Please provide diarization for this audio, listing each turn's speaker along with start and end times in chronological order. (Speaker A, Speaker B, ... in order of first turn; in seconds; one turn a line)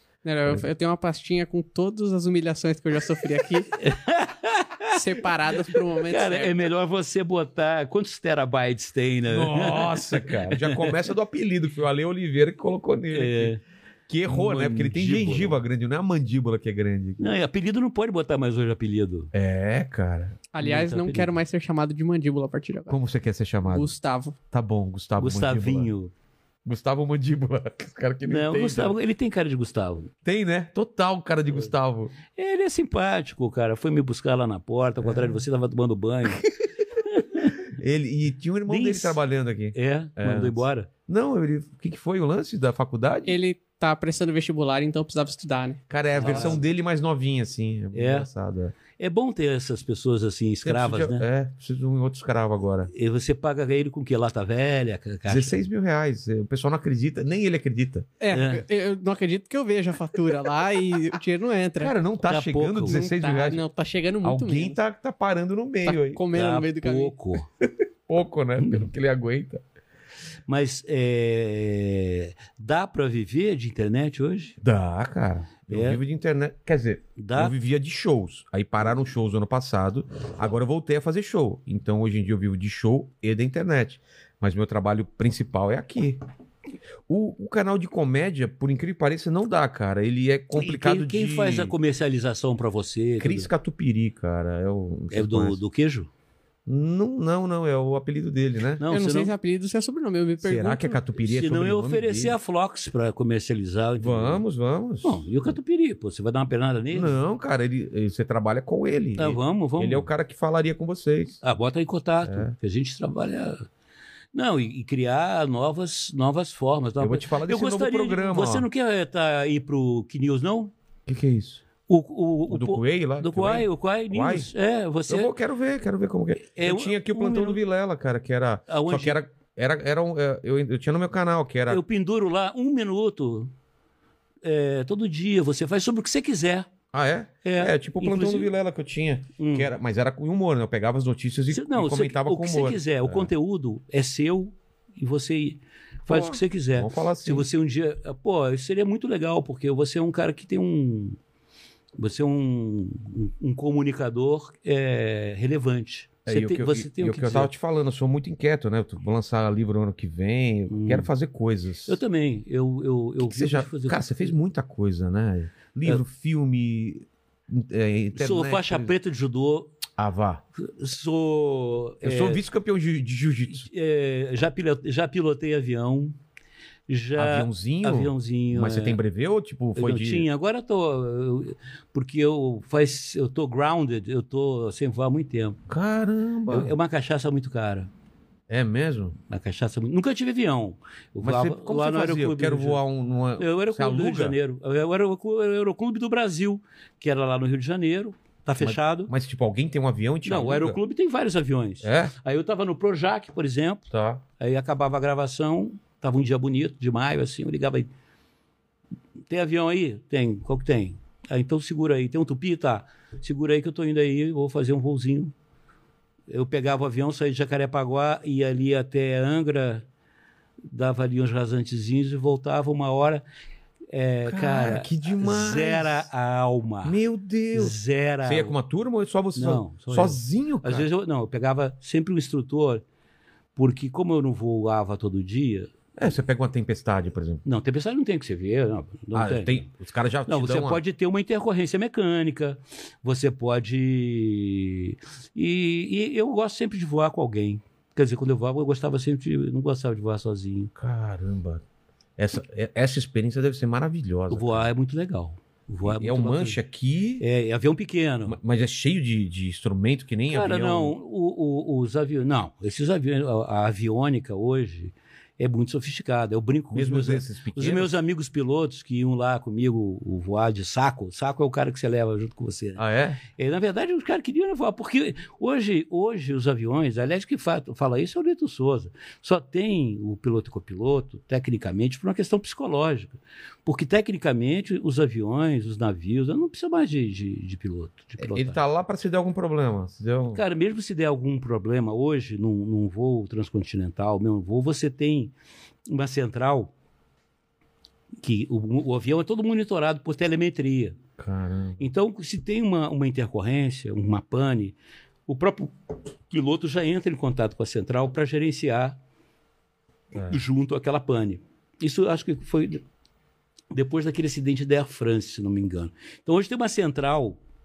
Speaker A: 0.2-3.7
Speaker B: 3.7-4.9
Speaker A: 4.9-6.7
Speaker B: 6.0-10.9
Speaker C: 9.3-13.5
Speaker B: 13.1-13.6
Speaker C: 14.1-17.3
Speaker B: 14.3-15.6
Speaker B: 17.2-19.3
Speaker C: 19.3-20.4
Speaker A: 20.5-23.0
Speaker B: 20.6-21.3
Speaker C: 22.9-23.9
Speaker A: 23.6-24.4
Speaker C: 24.5-25.9
Speaker B: 25.2-26.1
Speaker C: 26.6-28.9
Speaker B: 28.3-30.1
Speaker C: 30.2-32.1
Speaker B: 32.3-36.4
Speaker C: 35.0-35.4
Speaker C: 37.0-43.4
Speaker B: 37.0-37.5
Speaker B: 38.7-39.2
Speaker B: 39.7-40.9
Speaker A: 43.3-45.8
Speaker C: 45.9-48.7
Speaker B: 46.2-46.6
Speaker B: 47.9-48.3
Speaker B: 49.0-51.2
Speaker C: 50.6-52.9
Speaker B: 52.9-55.6
Speaker C: 55.3-58.1
Speaker A: 58.2-61.9
Speaker B: 58.3-58.6
Speaker C: 61.8-63.6
Speaker B: 62.2-63.1
Speaker A: 62.9-64.8
Speaker C: 64.2-66.2
Speaker A: 65.8-67.1
Speaker B: 66.3-67.5
Speaker C: 68.1-69.6
Speaker B: 70.5-74.6
Speaker C: 74.6-86.2
Speaker B: 75.7-76.0
Speaker B: 77.2-77.5
Speaker C: 87.1-91.7
Speaker B: 90.5-93.5
Speaker C: 93.2-95.6
Speaker B: 95.1-96.1
Speaker C: 96.7-98.8
Speaker B: 98.8-99.3
Speaker A: 98.9-101.0
Speaker C: 100.4-102.4
Speaker B: 101.2-104.4
Speaker C: 104.0-105.5
Speaker B: 105.0-107.1
Speaker C: 106.9-111.4
Speaker B: 109.2-110.1
Speaker B: 111.4-113.7
Speaker C: 112.2-112.5
Speaker B: 114.3-120.7
Speaker C: 117.0-118.7
Speaker C: 121.0-121.6
Speaker B: 121.9-125.3
Speaker C: 122.5-124.5
Speaker C: 125.1-131.8
Speaker B: 126.5-127.6
Speaker B: 128.7-129.2
Speaker B: 131.7-133.5
Speaker B: 134.4-136.7
Speaker C: 136.9-143.3
Speaker B: 137.4-138.5
Speaker B: 139.4-139.7
Speaker B: 141.5-151.2
Speaker C: 146.1-147.5
Speaker B: 152.0-157.5
Speaker C: 156.2-162.0
Speaker B: 160.7-161.1
Speaker B: 161.8-164.3
Speaker C: 163.3-168.9
Speaker B: 168.1-169.7
Speaker C: 170.0-170.4
Speaker B: 170.6-172.4
Speaker C: 172.0-173.7
Speaker B: 173.5-176.1
Speaker B: 176.9-179.0
Speaker C: 177.1-180.3
Speaker B: 179.7-185.6
Speaker C: 185.7-186.7
Speaker B: 186.5-187.9
Speaker C: 188.5-189.2
Speaker B: 189.3-192.8
Speaker C: 191.2-194.4
Speaker B: 193.4-199.1
Speaker C: 198.6-200.8
Speaker B: 200.2-207.9
Speaker C: 201.8-202.1
Speaker C: 203.9-204.2
Speaker B: 209.3-215.3
Speaker B: 216.3-219.8
Speaker B: 220.7-223.2
Speaker B: 223.9-227.0
Speaker C: 224.2-226.1
Speaker C: 226.8-230.9
Speaker B: 227.5-228.5
Speaker B: 229.3-232.8
Speaker B: 233.6-235.7
Speaker C: 236.0-237.4
Speaker B: 237.4-239.7
Speaker C: 239.1-240.8
Speaker B: 240.3-250.7
Speaker C: 250.8-251.6
Speaker C: 252.2-254.7
Speaker B: 254.3-256.6
Speaker C: 255.8-257.2
Speaker B: 257.2-258.4
Speaker C: 258.3-261.0
Speaker B: 260.3-288.6
Speaker C: 266.7-267.9
Speaker C: 272.8-273.2
Speaker C: 288.2-290.4
Speaker B: 290.3-295.3
Speaker B: 295.9-296.7
Speaker B: 298.2-301.0
Speaker C: 301.2-301.9
Speaker B: 301.8-304.7
Speaker B: 305.3-305.7
Speaker B: 306.3-309.0
Speaker C: 310.1-310.4
Speaker B: 310.3-312.8
Speaker B: 313.7-317.4